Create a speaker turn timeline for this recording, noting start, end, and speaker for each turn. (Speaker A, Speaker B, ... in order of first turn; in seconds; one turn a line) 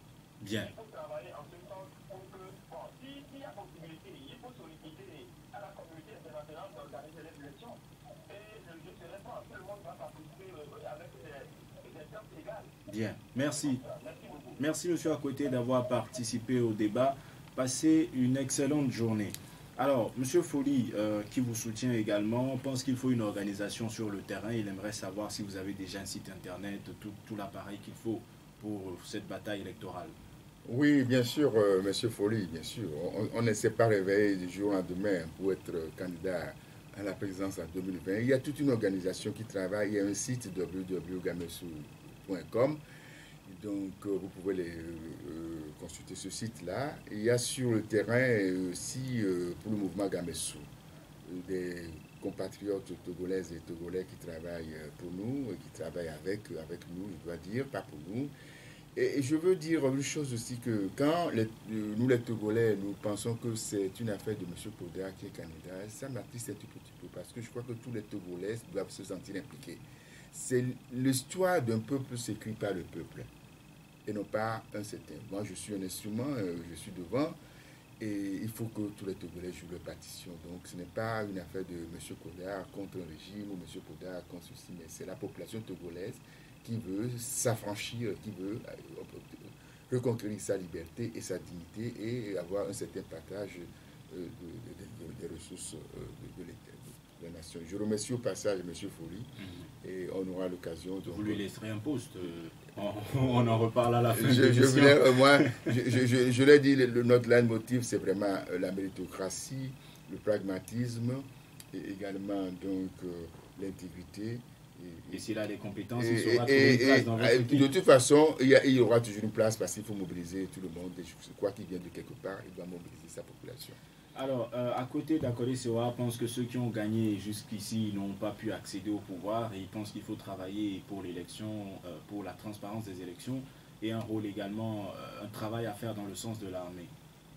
Speaker A: 0.4-0.7
Speaker B: 0.5-12.7
Speaker A: 12.9-13.8
Speaker B: 13.5-14.6
Speaker A: 14.6-30.1
Speaker C: 30.6-42.8
Speaker C: 43.5-50.7
Speaker C: 51.2-58.3
Speaker C: 59.0-73.3
Speaker C: 74.1-77.4
Speaker C: 78.0-101.4
Speaker A: 99.4-99.7
Speaker A: 101.1-105.8
Speaker C: 104.1-115.2
Speaker A: 115.1-117.7
Speaker C: 116.0-123.8
Speaker A: 124.2-136.9